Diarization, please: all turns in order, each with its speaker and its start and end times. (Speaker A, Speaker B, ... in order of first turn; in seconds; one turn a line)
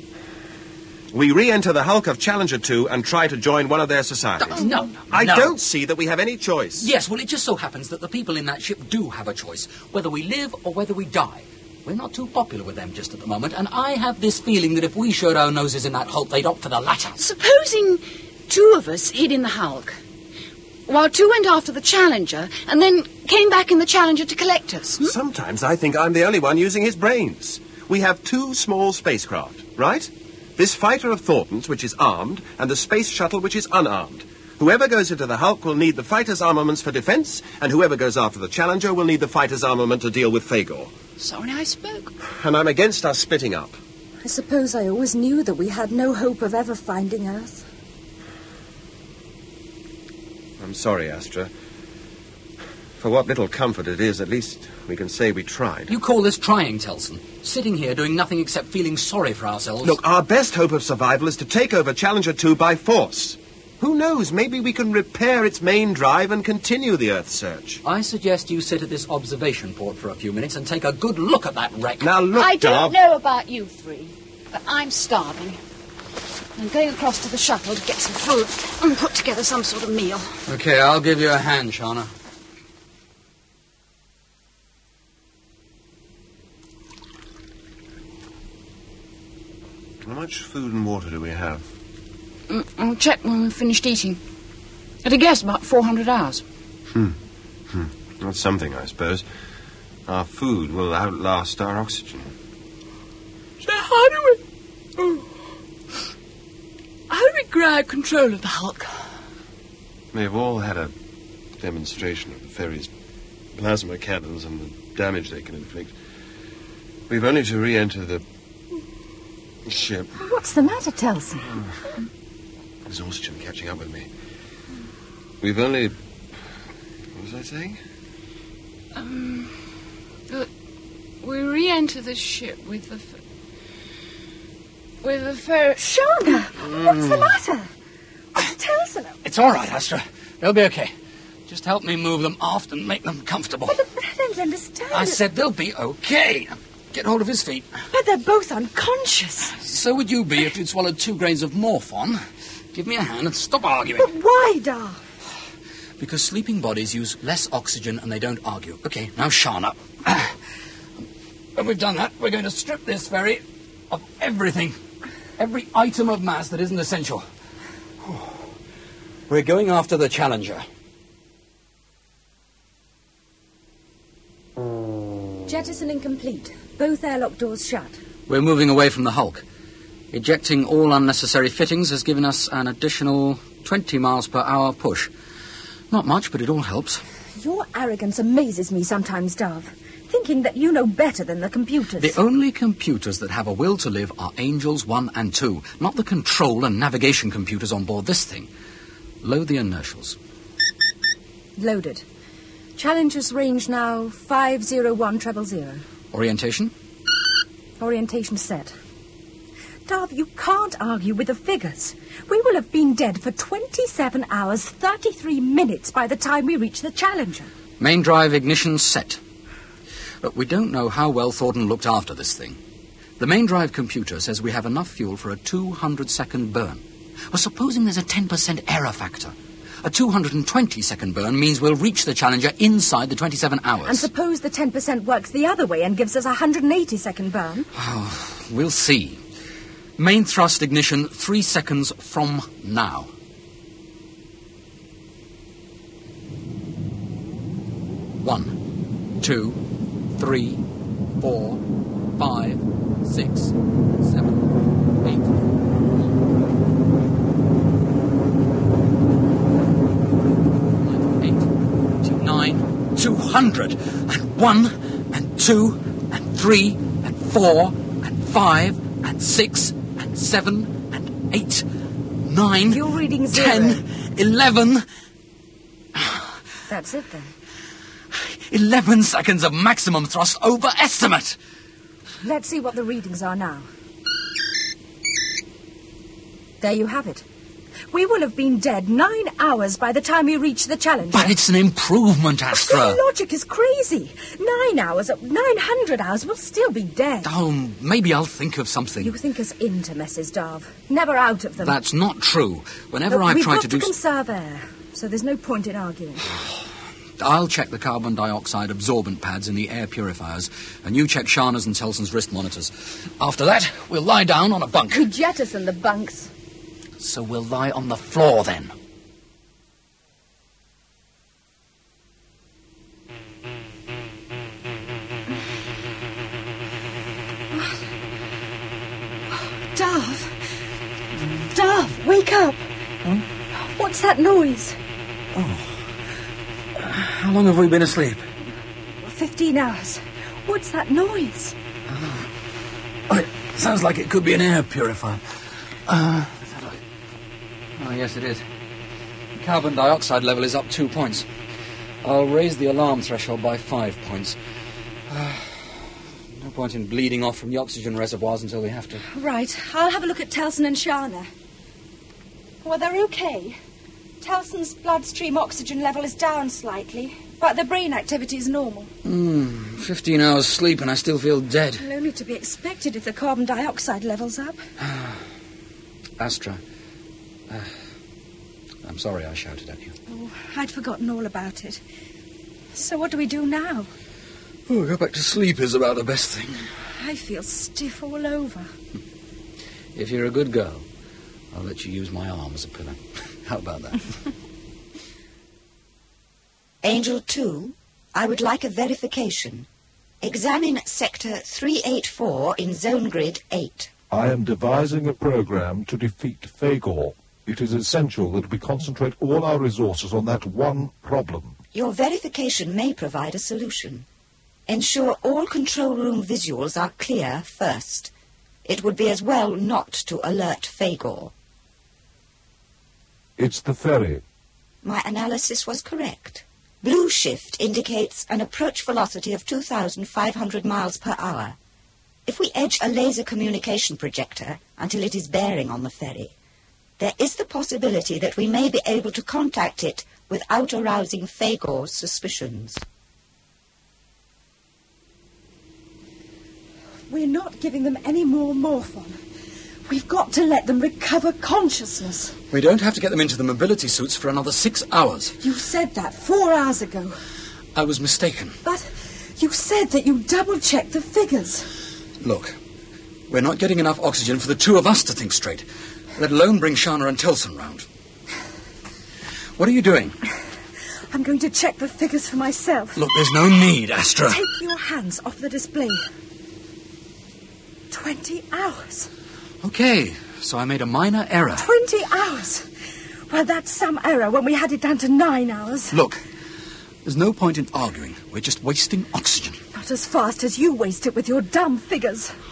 Speaker A: 1.1-6.9
Speaker B: 4.4-5.6
Speaker B: 6.8-17.2
Speaker C: 17.2-20.0
Speaker C: 20.9-25.1
Speaker A: 25.0-40.9
Speaker C: 41.2-42.1
Speaker A: 42.3-43.8
Speaker D: 44.2-47.6
Speaker A: 50.6-51.5
Speaker A: 53.0-55.9
Speaker B: 55.9-60.0
Speaker A: 59.8-67.8
Speaker B: 67.8-72.1
Speaker A: 72.0-72.9
Speaker C: 72.3-75.6
Speaker C: 76.5-80.4
Speaker B: 80.5-82.1
Speaker A: 90.0-91.6
Speaker C: 92.5-94.2
Speaker C: 95.0-96.4
Speaker A: 96.9-97.2
Speaker A: 97.7-99.2
Speaker A: 100.0-102.3
Speaker C: 103.6-104.4
Speaker C: 105.0-105.2
Speaker C: 107.1-109.1
Speaker A: 110.1-110.9
Speaker A: 111.6-112.9
Speaker A: 113.5-115.9
Speaker A: 117.1-118.2
Speaker A: 119.7-120.1
Speaker D: 120.1-121.6
Speaker A: 122.8-124.1
Speaker A: 125.4-126.0
Speaker A: 127.1-127.8
Speaker C: 128.9-129.6
Speaker C: 131.2-133.2
Speaker C: 135.0-136.4
Speaker D: 135.8-137.7
Speaker A: 136.7-137.3
Speaker D: 138.3-139.2
Speaker B: 139.2-140.9
Speaker B: 141.5-143.8
Speaker D: 143.7-145.2
Speaker B: 144.9-147.7
Speaker D: 147.9-149.6
Speaker B: 149.6-152.2
Speaker B: 152.7-154.1
Speaker D: 154.0-155.0
Speaker B: 156.0-160.4
Speaker B: 161.6-164.8
Speaker B: 165.4-167.3
Speaker B: 168.0-168.5
Speaker B: 169.3-170.7
Speaker D: 175.4-177.9
Speaker B: 178.3-179.4
Speaker B: 180.1-185.1
Speaker B: 185.9-187.0
Speaker D: 187.4-192.2
Speaker B: 192.0-198.5
Speaker B: 199.2-200.2
Speaker D: 201.6-202.0
Speaker D: 202.8-205.8
Speaker B: 206.1-206.7
Speaker D: 207.8-208.7
Speaker D: 209.8-217.5
Speaker B: 217.8-219.2
Speaker B: 220.2-222.6
Speaker B: 223.2-234.1
Speaker D: 233.8-237.7
Speaker B: 237.7-239.2
Speaker B: 240.0-243.1
Speaker B: 248.2-248.6
Speaker B: 249.2-249.6
Speaker B: 250.1-250.6
Speaker B: 251.2-251.6
Speaker B: 252.2-255.4
Speaker B: 260.8-271.6
Speaker B: 272.2-274.9
Speaker D: 272.7-273.8
Speaker B: 275.9-276.2
Speaker D: 276.7-277.3
Speaker B: 278.1-281.4
Speaker D: 282.2-283.7
Speaker D: 286.6-287.2
Speaker D: 287.9-291.3
Speaker B: 291.1-293.0
Speaker D: 292.5-297.3
Speaker B: 297.2-299.1
Speaker D: 299.0-301.8
Speaker B: 301.6-303.9
Speaker D: 303.1-306.3
Speaker B: 307.2-315.1
Speaker D: 314.9-316.3
Speaker B: 317.0-318.7
Speaker D: 329.3-330.4
Speaker D: 331.5-332.6
Speaker D: 333.6-334.8
Speaker B: 335.3-335.8
Speaker B: 336.8-338.3
Speaker D: 339.0-341.6
Speaker B: 341.9-342.3
Speaker B: 343.1-345.2
Speaker B: 345.9-346.8
Speaker B: 347.8-348.4
Speaker B: 349.3-351.3
Speaker B: 352.0-354.4
Speaker B: 355.1-359.0
Speaker D: 359.1-361.3
Speaker D: 362.6-363.6
Speaker D: 364.2-368.9
Speaker B: 369.0-371.9
Speaker D: 371.8-374.6
Speaker B: 374.8-375.2
Speaker B: 376.2-376.6
Speaker B: 378.8-379.9
Speaker D: 380.1-381.8
Speaker D: 382.7-383.9
Speaker B: 384.7-386.6
Speaker D: 386.9-388.7
Speaker B: 389.9-390.9
Speaker B: 391.5-394.1
Speaker E: 396.8-399.7
Speaker E: 400.2-403.9
Speaker F: 404.1-411.6
Speaker E: 411.7-414.1
Speaker E: 414.7-418.1
Speaker E: 418.6-421.3
Speaker F: 423.4-424.2
Speaker E: 424.8-431.6
Speaker E: 432.2-436.3
Speaker E: 437.0-442.8
Speaker D: 447.1-449.2
Speaker D: 449.9-452.4
Speaker B: 452.5-455.4
Speaker D: 455.4-457.2
Speaker B: 457.7-458.6
Speaker D: 458.6-461.7
Speaker B: 462.2-462.6
Speaker B: 463.3-467.9
Speaker B: 469.6-470.2
Speaker D: 471.1-473.1
Speaker B: 472.9-474.4
Speaker D: 474.3-476.0
Speaker D: 477.9-479.1
Speaker B: 479.6-481.7
Speaker D: 481.6-482.7
Speaker D: 483.3-485.9
Speaker B: 485.9-486.2
Speaker B: 487.0-489.6
Speaker D: 489.7-492.3